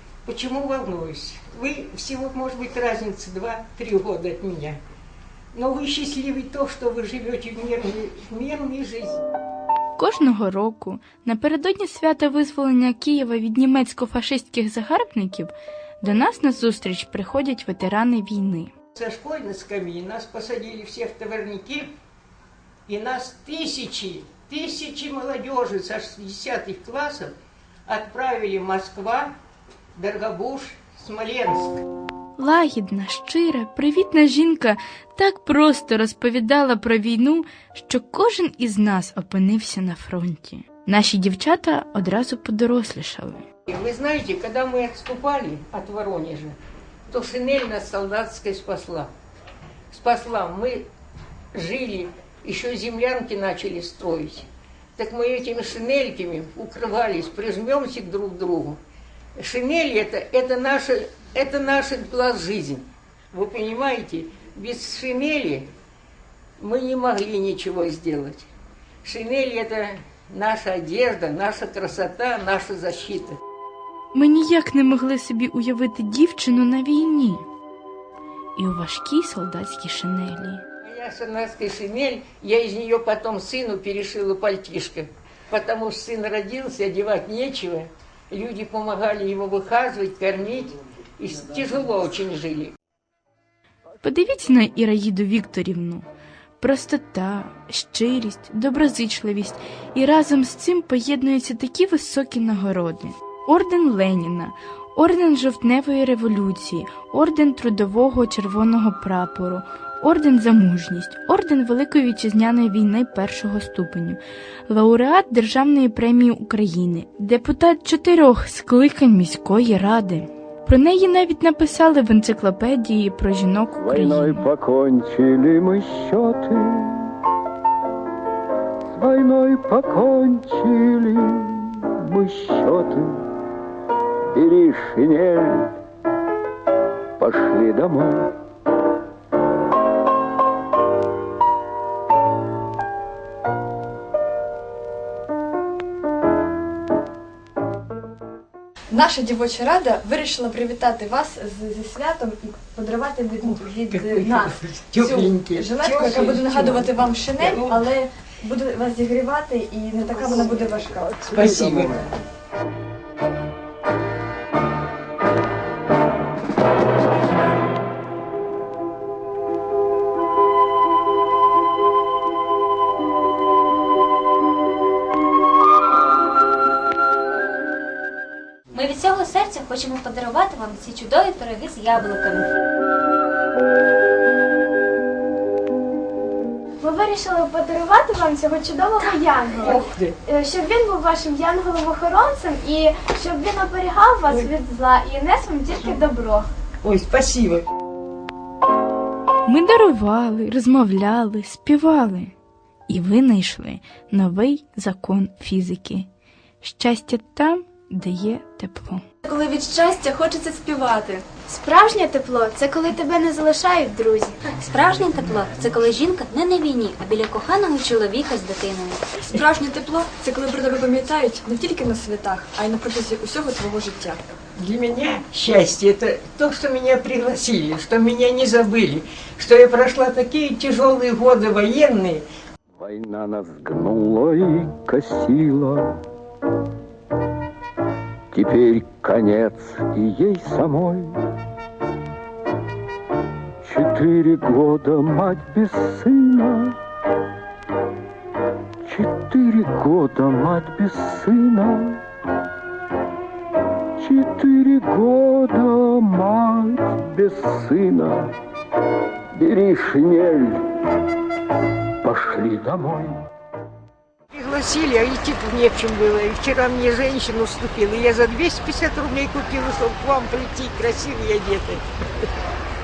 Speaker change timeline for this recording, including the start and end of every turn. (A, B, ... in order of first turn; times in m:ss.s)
0:00.2-0:04.8 A
0:05.5-0:09.2 A
0:10.0-0:18.7 B
0:18.9-0:21.9 A
0:22.9-0:27.3 A
0:27.9-0:29.3 A
0:29.9-0:31.8 A
0:32.4-0:43.4 B
0:43.7-0:46.6 A
0:47.1-0:49.1 A
0:49.9-0:50.8 A
0:51.5-0:58.8 A
0:59.4-1:05.7 A
1:06.6-1:08.5 A
1:09.0-1:13.4 A
1:14.1-1:17.4 B
1:18.6-1:20.6 B
1:20.8-1:32.7 A
1:34.0-1:36.0 B
1:36.6-2:04.4 B
2:03.8-2:07.1 C
2:08.9-2:13.2 C
2:14.3-2:15.8 C
2:17.2-2:18.3 C
2:28.9-2:41.3 D
2:33.4-2:37.9 A
2:40.4-2:42.0 C
2:41.3-2:42.0 A
2:58.7-3:02.5 E
3:06.8-3:16.5 F
3:09.6-3:10.2 A
3:15.8-3:16.0 A
3:16.8-3:17.6 A
3:19.4-3:22.3 B
3:22.9-3:26.1 B
3:26.6-3:29.0 B
3:29.2-3:34.4 F
3:34.5-3:39.0 E
3:39.2-3:44.2 D
3:44.6-3:52.2 A
3:52.8-3:56.0 C
3:58.3-4:01.2 C
4:03.6-4:06.8 C
4:08.8-4:12.0 C
4:14.0-4:18.4 C
4:19.3-4:20.6 C
4:22.0-4:23.2 C
4:24.3-4:31.8 A